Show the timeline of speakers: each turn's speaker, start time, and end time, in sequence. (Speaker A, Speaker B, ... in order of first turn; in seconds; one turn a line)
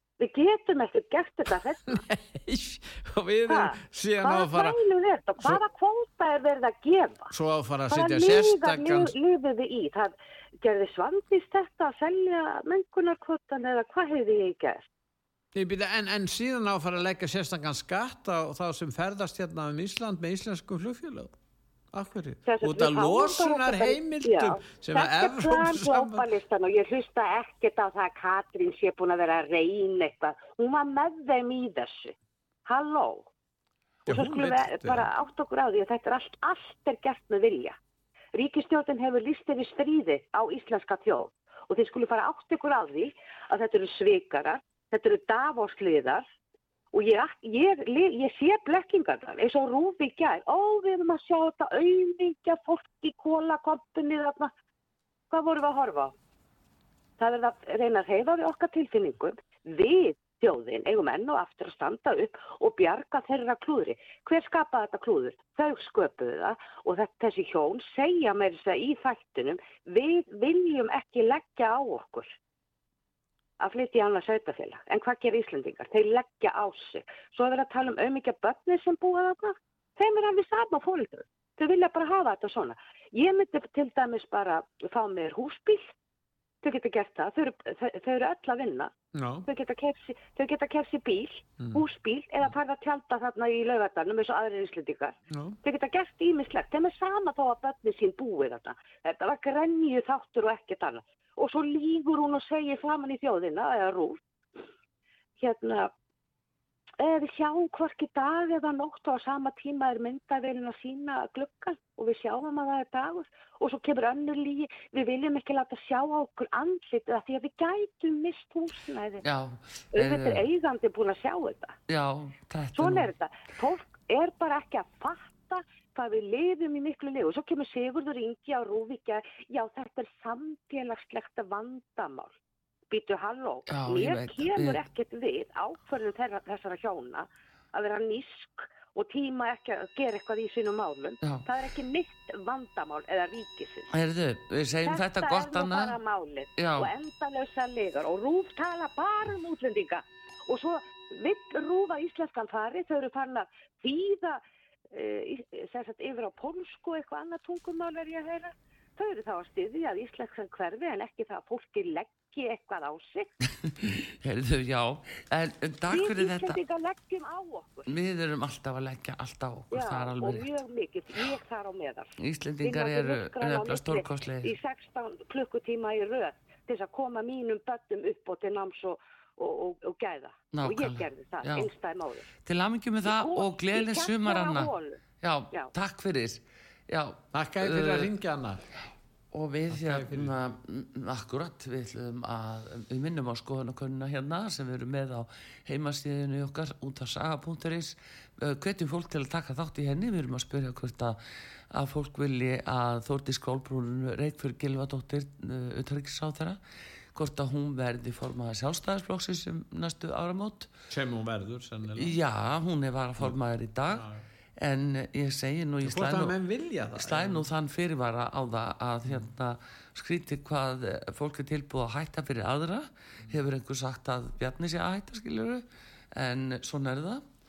Speaker A: 0.2-2.0
Speaker B: 1.9-4.8
Speaker A: 3.5-7.3
Speaker B: 7.3-9.1
Speaker A: 7.9-14.9
Speaker B: 15.6-21.3
Speaker B: 21.9-26.3
Speaker A: 22.4-32.1
Speaker A: 32.7-33.3
Speaker B: 34.1-35.1
Speaker A: 34.1-37.8
Speaker A: 38.3-46.2
Speaker A: 46.9-54.5
Speaker A: 55.3-56.1
Speaker A: 57.2-72.3
Speaker A: 73.6-85.9
Speaker A: 86.6-88.9
Speaker B: 89.1-89.5
Speaker A: 89.5-104.2
Speaker B: 91.6-91.8
Speaker B: 95.3-95.6
Speaker A: 105.4-105.9
Speaker A: 107.0-119.2
Speaker C: 119.2-120.4
Speaker A: 119.9-121.8
Speaker C: 121.9-123.1
Speaker A: 122.8-132.3
Speaker A: 132.9-143.9
Speaker C: 133.7-134.8
Speaker C: 143.9-146.0
Speaker A: 144.8-163.3
Speaker C: 146.6-146.9
Speaker C: 163.6-166.6
Speaker A: 165.9-167.9
Speaker C: 167.9-170.5
Speaker A: 169.7-182.3
Speaker C: 172.2-174.5
Speaker C: 180.5-181.7
Speaker C: 182.4-188.1
Speaker A: 183.0-185.7
Speaker B: 187.3-188.6
Speaker C: 189.3-201.2
Speaker B: 189.7-190.3
Speaker C: 201.7-206.6
Speaker C: 207.2-210.7
Speaker B: 210.9-212.2
Speaker C: 212.0-214.1
Speaker B: 213.9-214.2
Speaker C: 214.6-216.3
Speaker B: 215.8-217.5
Speaker C: 217.0-227.2